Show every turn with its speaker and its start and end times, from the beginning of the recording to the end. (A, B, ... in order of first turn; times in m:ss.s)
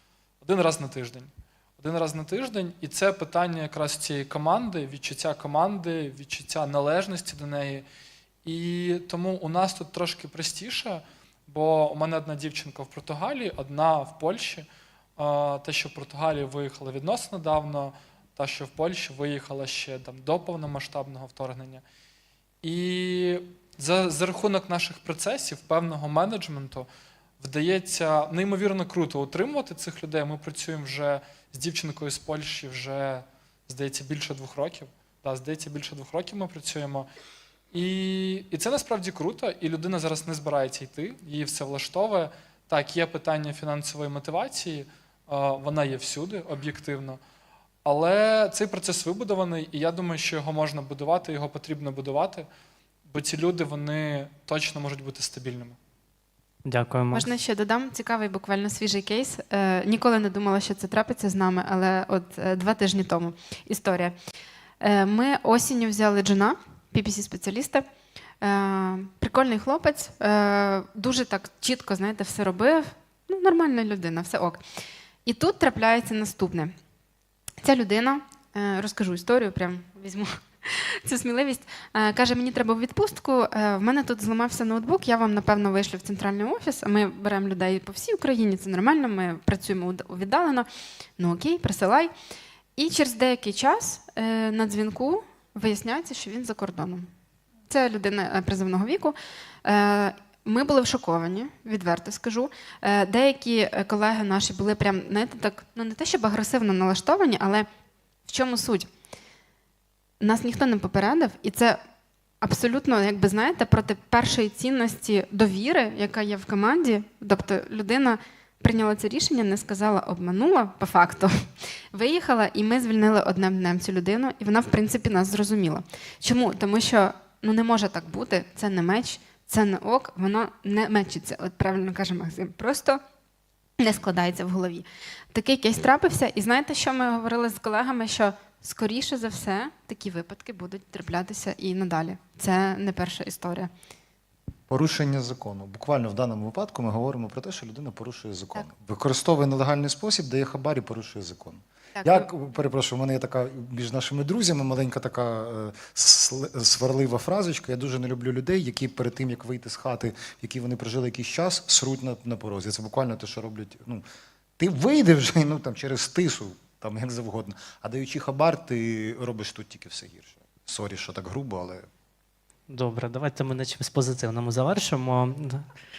0:00.4-0:07.9 A
0:08.4-0:21.8 A
0:22.6-0:26.9 A
0:27.4-0:37.1 A
0:37.7-0:47.2 A
0:47.8-0:52.5 A
0:53.1-0:55.8 A
0:56.6-0:57.3 B
0:57.1-1:04.1 C
1:04.8-1:07.8 C
1:08.4-1:14.6 C
1:15.2-1:16.7 C
1:17.6-1:32.1 C
1:32.8-1:37.1 C
1:37.7-1:47.7 C
1:48.3-1:48.9 C
1:50.2-1:51.8 C
1:52.4-2:01.3 C
2:01.9-2:13.0 C
2:13.8-2:23.7 C
2:24.7-2:44.0 D
2:32.0-2:32.3 C
2:44.6-2:51.9 D
2:52.7-2:55.6 B